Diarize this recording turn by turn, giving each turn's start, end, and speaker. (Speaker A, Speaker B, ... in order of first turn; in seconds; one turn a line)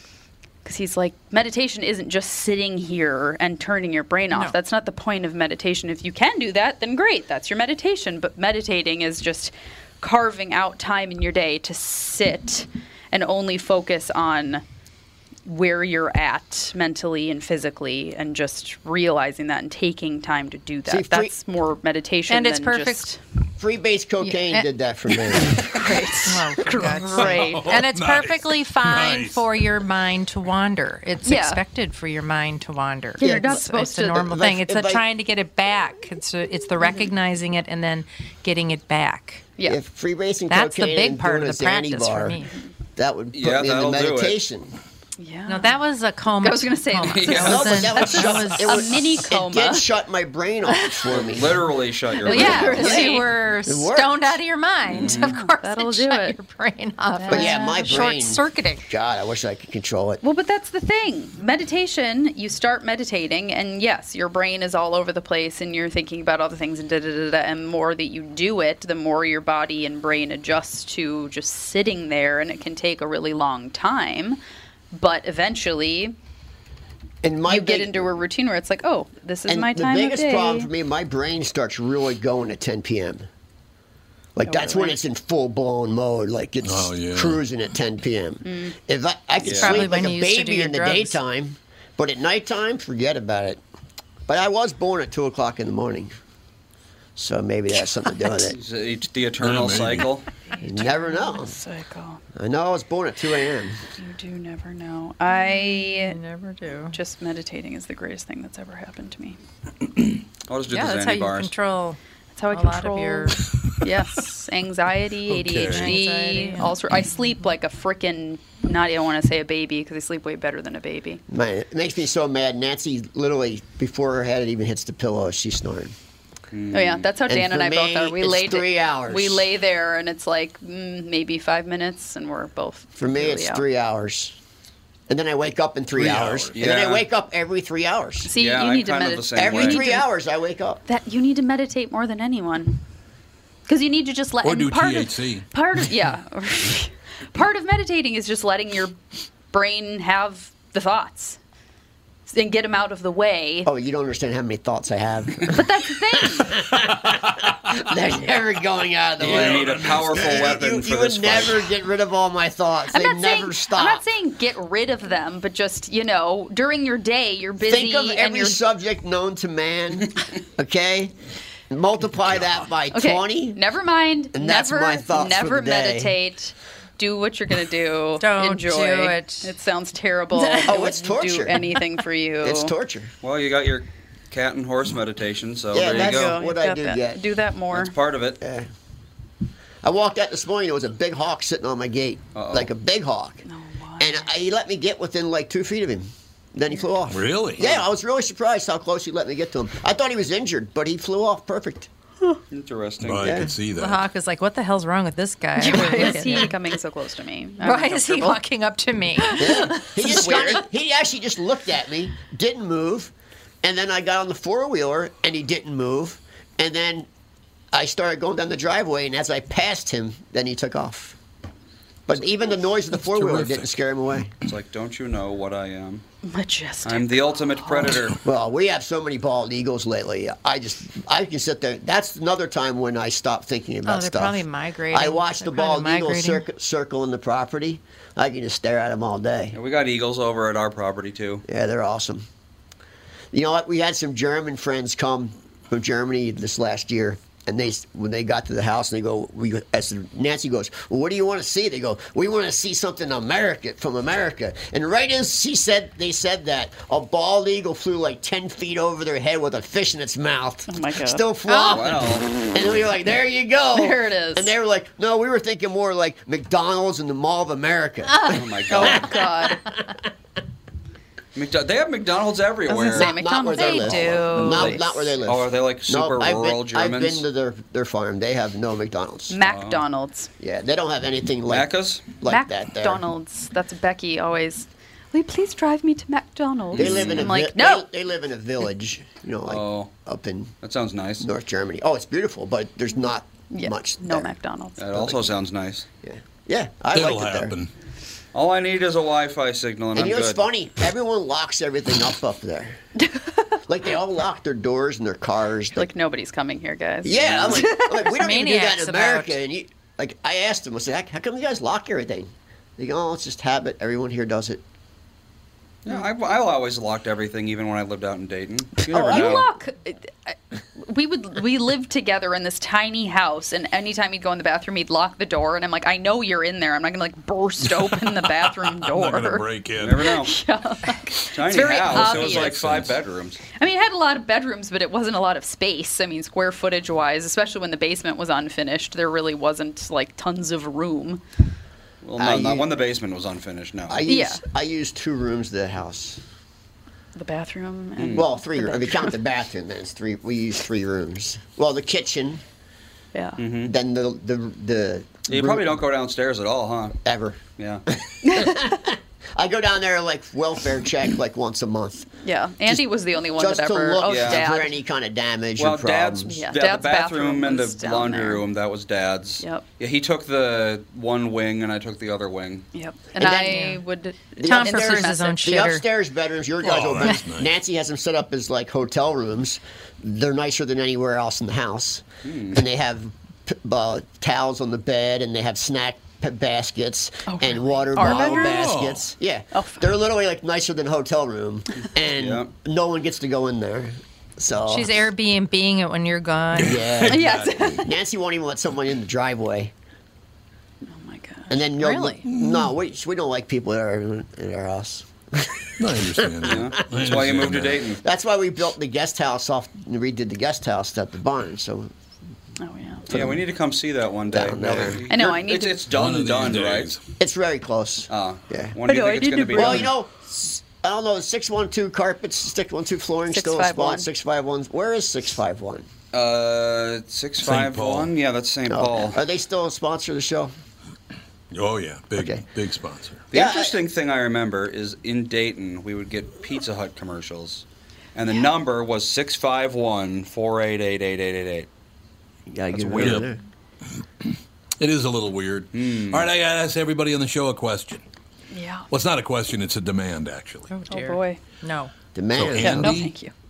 Speaker A: 0.7-14.6
Speaker A: 15.5-23.2
Speaker B: 20.9-21.3
Speaker C: 22.3-23.1
Speaker B: 23.6-25.7
Speaker C: 24.2-24.7
Speaker C: 25.4-39.5
Speaker A: 25.7-27.6
Speaker D: 27.1-29.4
Speaker A: 31.2-31.6
Speaker A: 33.2-34.3
Speaker B: 33.2-35.1
Speaker A: 36.8-37.1
Speaker B: 39.6-42.4
Speaker C: 40.5-42.5
Speaker B: 43.0-44.8
Speaker E: 43.3-44.4
Speaker A: 45.2-45.8
Speaker C: 45.5-49.0
Speaker A: 46.4-49.9
Speaker E: 47.0-47.9
Speaker B: 47.4-51.7
Speaker A: 50.7-51.3
Speaker E: 51.1-53.1
Speaker A: 52.2-53.3
Speaker C: 52.2-58.9
Speaker B: 52.3-54.4
Speaker E: 54.9-55.4
Speaker A: 54.9-56.4
Speaker A: 57.1-58.1
Speaker B: 57.3-60.2
Speaker A: 60.2-74.4
Speaker A: 74.9-76.2
Speaker B: 77.2-78.1
Speaker A: 77.5-80.7
Speaker B: 79.5-83.3
Speaker B: 84.4-93.6
Speaker A: 84.5-85.0
Speaker D: 86.6-87.4
Speaker A: 88.5-88.8
Speaker E: 89.4-89.9
Speaker C: 89.5-91.2
Speaker B: 94.3-96.1
Speaker B: 97.2-98.6
Speaker E: 98.5-100.3
Speaker D: 99.4-100.1
Speaker A: 100.5-102.2
Speaker B: 100.6-101.6
Speaker B: 102.4-103.8
Speaker A: 104.0-106.2
Speaker C: 105.3-107.0
Speaker A: 106.9-109.4
Speaker E: 110.5-111.5
Speaker C: 110.7-112.0
Speaker A: 112.3-121.2
Speaker C: 112.5-113.5
Speaker D: 115.3-116.0
Speaker C: 115.6-116.8
Speaker B: 121.3-125.9
Speaker E: 126.5-127.1
Speaker A: 126.7-133.6
Speaker B: 127.3-129.5
Speaker B: 133.0-134.4
Speaker B: 135.1-138.3
Speaker D: 135.9-136.6
Speaker E: 136.6-137.1
Speaker A: 138.3-140.1
Speaker E: 138.3-139.8
Speaker B: 139.4-140.8
Speaker A: 140.9-142.8
Speaker A: 143.7-149.0
Speaker D: 144.4-145.5
Speaker A: 149.5-151.4
Speaker A: 152.3-153.7
Speaker B: 153.7-164.1
Speaker A: 155.5-156.6
Speaker E: 159.2-161.7
Speaker D: 159.2-160.6
Speaker A: 162.9-168.6
Speaker B: 167.6-171.1
Speaker B: 171.7-173.6
Speaker A: 172.9-182.7
Speaker B: 174.3-176.2
Speaker C: 178.2-179.5
Speaker C: 180.3-180.8
Speaker B: 180.7-181.6
Speaker C: 181.5-181.8
Speaker B: 182.4-183.1
Speaker E: 183.2-186.4
Speaker B: 185.7-187.2
Speaker A: 185.8-188.0
Speaker E: 187.7-188.4
Speaker B: 188.4-188.7
Speaker B: 189.8-193.4
Speaker E: 192.3-192.7
Speaker A: 193.5-194.3
Speaker B: 194.0-201.9
Speaker D: 197.1-197.6
Speaker E: 202.5-203.4
Speaker D: 203.0-204.0
Speaker B: 203.2-203.5
Speaker C: 203.7-206.6
Speaker A: 205.6-208.4
Speaker C: 207.6-210.6
Speaker A: 209.2-210.6
Speaker B: 209.4-217.1
Speaker B: 217.7-221.2
Speaker B: 222.1-224.3
Speaker D: 222.9-223.7
Speaker E: 224.4-226.0
Speaker A: 226.2-228.0
Speaker E: 226.8-228.2
Speaker B: 228.2-239.6
Speaker C: 233.9-236.4
Speaker E: 239.5-241.4
Speaker B: 241.5-242.2
Speaker B: 243.3-270.0
Speaker A: 260.7-261.2
Speaker C: 261.5-261.9
Speaker E: 261.7-262.3
Speaker A: 263.7-264.5
Speaker E: 268.3-269.1
Speaker A: 268.7-269.6
Speaker E: 271.4-273.1
Speaker A: 272.7-275.2
Speaker B: 272.9-279.4
Speaker C: 273.5-274.5
Speaker E: 273.8-277.2
Speaker A: 279.3-280.3
Speaker E: 279.4-279.8
Speaker B: 280.4-283.1
Speaker E: 281.5-282.2
Speaker A: 282.2-287.9
Speaker E: 286.7-287.3
Speaker B: 286.7-290.5
Speaker E: 289.5-289.9
Speaker E: 290.6-291.3
Speaker B: 291.2-294.3
Speaker A: 293.5-294.9
Speaker E: 294.8-295.9
Speaker B: 294.9-295.3
Speaker B: 296.0-297.5
Speaker D: 296.9-297.7
Speaker E: 298.3-300.4
Speaker B: 299.9-302.8
Speaker A: 303.0-303.6
Speaker B: 303.7-305.9
Speaker A: 305.8-308.1
Speaker B: 307.0-314.6
Speaker E: 307.1-307.7
Speaker C: 307.9-309.3
Speaker E: 315.9-319.5
Speaker A: 318.9-329.5
Speaker B: 318.9-319.5
Speaker D: 327.9-330.1
Speaker E: 329.8-330.3
Speaker A: 330.0-332.5
Speaker E: 331.3-333.4
Speaker D: 331.9-333.0
Speaker A: 333.6-341.2
Speaker E: 342.0-344.0
Speaker B: 342.2-342.7
Speaker B: 343.9-346.2
Speaker A: 344.1-344.4
Speaker A: 347.2-349.2
Speaker E: 348.0-348.3
Speaker B: 348.1-352.4
Speaker A: 353.1-353.4
Speaker E: 353.4-353.7
Speaker B: 353.6-355.8
Speaker E: 355.3-357.0
Speaker B: 357.0-362.1
Speaker E: 357.6-357.8
Speaker A: 358.2-358.7
Speaker A: 362.2-364.8
Speaker B: 362.7-366.4
Speaker E: 364.1-364.4
Speaker E: 365.6-372.7
Speaker A: 366.3-368.4
Speaker A: 372.7-375.6
Speaker B: 373.2-373.7
Speaker C: 373.3-373.8
Speaker B: 374.4-395.0
Speaker C: 374.4-375.8
Speaker D: 376.6-377.5
Speaker E: 382.2-382.6
Speaker A: 387.3-388.7
Speaker D: 388.0-389.1
Speaker A: 389.5-390.0
Speaker E: 392.2-392.5
Speaker C: 394.7-396.9
Speaker D: 396.6-397.8
Speaker B: 396.6-399.7
Speaker A: 397.1-397.9
Speaker A: 400.9-402.1
Speaker B: 401.5-407.2
Speaker C: 401.8-402.2
Speaker D: 402.3-402.7
Speaker D: 405.8-407.9
Speaker E: 406.4-408.0
Speaker B: 407.9-411.9
Speaker A: 412.6-413.1
Speaker E: 413.1-417.0
Speaker B: 413.1-413.5
Speaker B: 414.3-415.3
Speaker A: 415.1-415.8
Speaker D: 415.9-417.0
Speaker B: 417.2-418.8
Speaker E: 418.1-419.9
Speaker A: 418.8-419.9
Speaker B: 419.5-425.9
Speaker A: 423.3-424.1
Speaker E: 426.1-429.2
Speaker D: 427.4-428.1
Speaker B: 428.7-430.5
Speaker D: 431.5-433.3
Speaker B: 432.2-432.4
Speaker E: 433.3-441.7
Speaker B: 433.3-433.8
Speaker B: 442.5-443.4
Speaker E: 442.7-443.2
Speaker D: 443.0-443.3
Speaker D: 444.8-448.0
Speaker E: 445.7-446.3
Speaker A: 448.5-448.9
Speaker D: 448.9-450.7
Speaker C: 450.7-451.9
Speaker A: 450.9-451.4
Speaker B: 452.1-453.0
Speaker D: 452.4-453.1
Speaker A: 452.6-453.3